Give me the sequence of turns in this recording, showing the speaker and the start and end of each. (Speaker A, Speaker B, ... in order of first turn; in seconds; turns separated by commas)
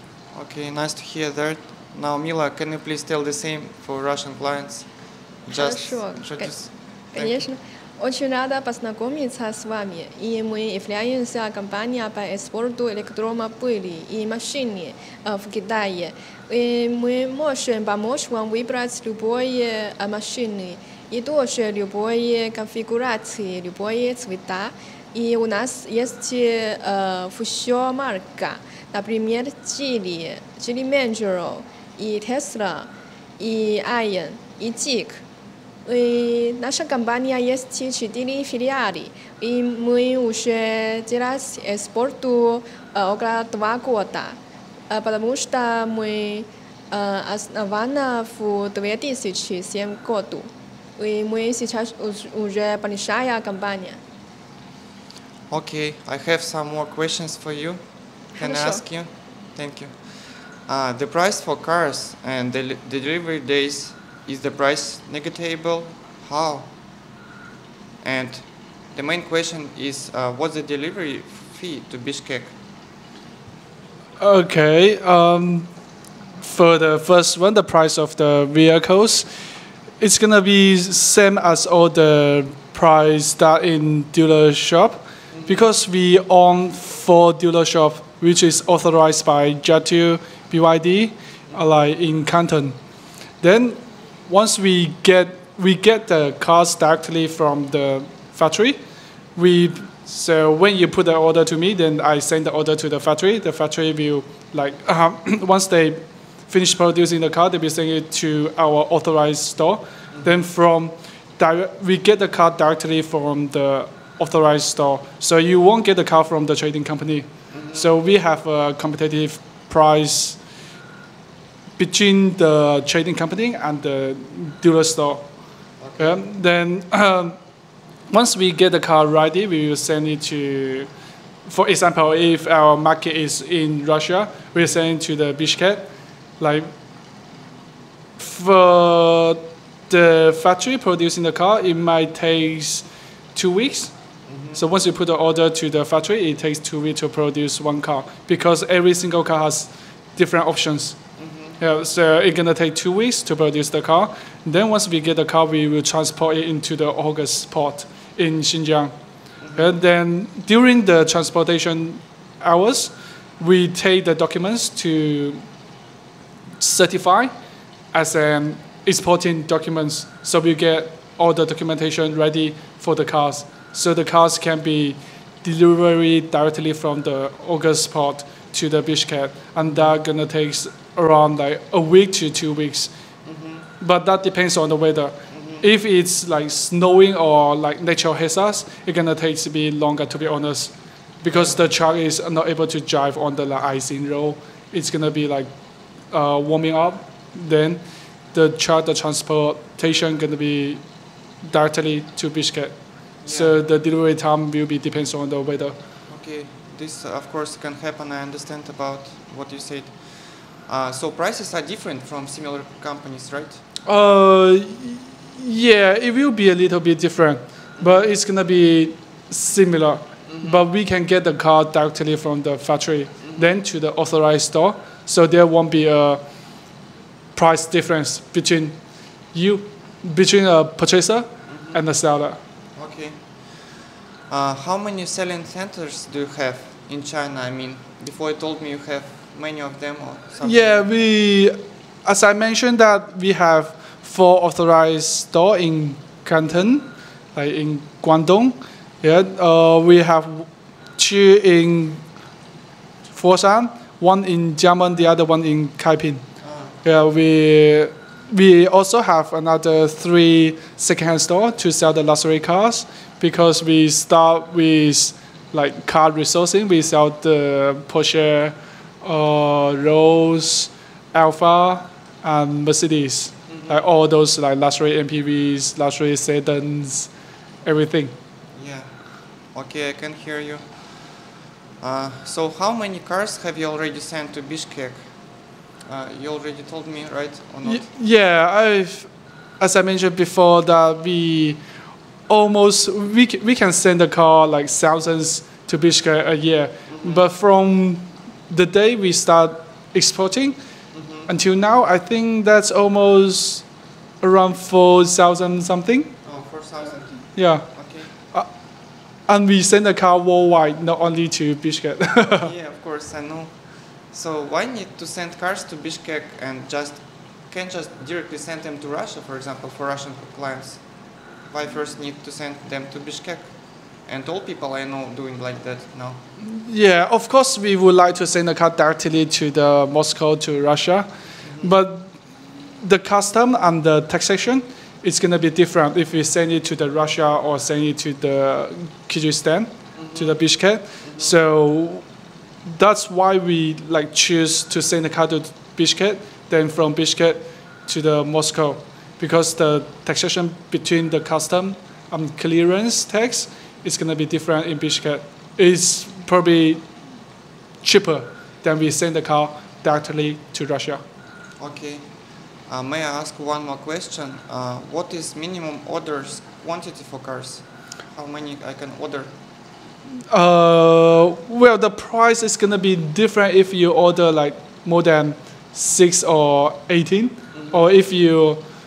Speaker A: 0.3-7.5, Speaker B: 5.5-35.2, Speaker B: 35.9-44.4, Speaker B: 44.9-54.0, Speaker A: 55.5-66.7, Speaker B: 58.4-58.8, Speaker A: 68.0-72.5, Speaker C: 74.2-75.7, Speaker C: 76.4-79.5, Speaker C: 80.0-92.8, Speaker A: 85.3-85.6, Speaker C: 93.4-98.8, Speaker C: 99.4-120.4, Speaker A: 117.5-117.9, Speaker C: 121.8-125.3, Speaker A: 125.8-126.2, Speaker C: 126.0-127.4, Speaker C: 128.1-130.9, Speaker C: 131.4-136.7, Speaker C: 138.2-143.9, Speaker A: 144.3-144.6, Speaker C: 144.5-151.0, Speaker A: 151.2-151.6, Speaker C: 151.6-158.9, Speaker A: 159.4-159.8, Speaker C: 159.5-165.5, Speaker C: 166.6-167.3, Speaker C: 167.9-182.9, Speaker A: 179.6-179.9, Speaker A: 183.2-183.7, Speaker C: 183.8-195.5, Speaker A: 185.3-185.7, Speaker A: 191.3-191.6, Speaker C: 196.1-200.8, Speaker C: 201.4-205.8, Speaker A: 203.2-203.6, Speaker A: 206.1-213.6, Speaker C: 213.9-226.2, Speaker A: 217.8-218.1, Speaker A: 220.3-220.6, Speaker C: 227.4-228.8, Speaker C: 229.3-232.4, Speaker A: 231.5-231.8, Speaker A: 232.8-240.8, Speaker C: 240.4-252.0, Speaker C: 253.1-256.2, Speaker A: 256.4-256.8, Speaker C: 256.8-277.1, Speaker A: 273.5-273.8, Speaker C: 277.6-278.1, Speaker A: 278.5-285.1, Speaker A: 285.8-287.9, Speaker C: 287.6-291.6, Speaker C: 292.3-300.6, Speaker A: 296.9-297.2, Speaker A: 300.9-301.3, Speaker C: 301.3-303.7, Speaker C: 304.2-306.1, Speaker A: 306.2-308.1, Speaker C: 307.4-308.5, Speaker C: 309.3-312.5, Speaker A: 312.4-320.9, Speaker A: 321.4-326.2, Speaker C: 326.4-331.1, Speaker A: 331.4-331.8, Speaker C: 331.6-332.2, Speaker C: 332.8-342.1, Speaker A: 339.9-340.4, Speaker A: 341.0-341.3, Speaker C: 342.6-356.9, Speaker C: 357.8-361.0, Speaker A: 361.6-362.1, Speaker A: 362.7-369.4, Speaker C: 370.3-378.6, Speaker A: 377.5-377.9